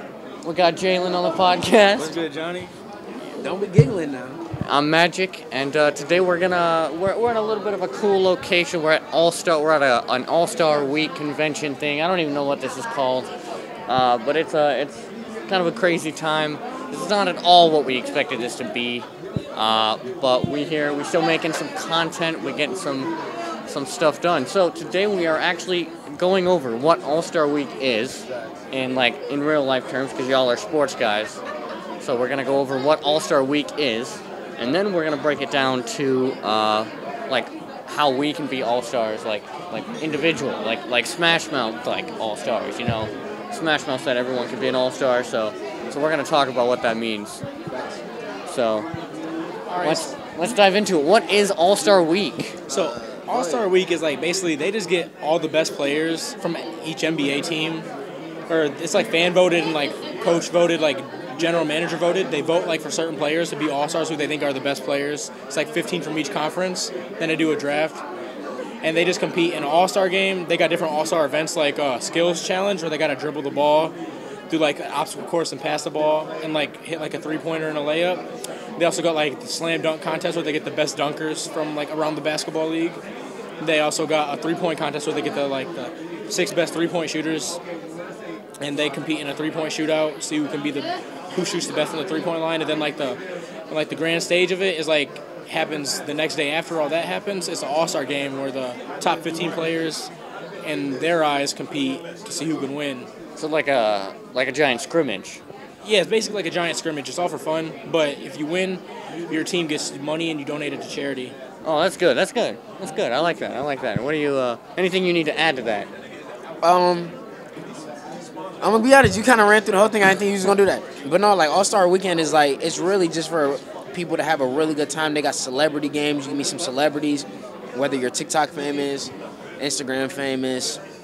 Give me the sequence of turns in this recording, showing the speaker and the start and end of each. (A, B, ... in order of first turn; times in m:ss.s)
0:00.4-0:02.2 A
0:02.0-0:02.7 B
0:03.4-0:04.4 C
0:04.6-0:13.3 A
0:13.9-0:23.1 A
0:23.7-0:31.4 A
0:32.0-0:47.4 A
0:47.7-0:48.0 C
0:48.4-0:48.9 A
0:49.7-0:50.2 B
0:49.8-0:52.6 A
0:52.7-0:53.7 C
0:52.7-0:57.9 B
0:58.5-1:08.0 B
1:08.8-1:14.0 B
1:14.5-1:18.2 B
1:18.8-1:23.0 B
1:23.6-1:27.6 B
1:28.6-1:40.1 B
1:40.6-1:43.1 B
1:43.4-1:45.4 A
1:45.8-1:51.4 B
1:51.6-1:55.9 A
1:56.6-1:57.1 C
1:58.6-2:10.8 C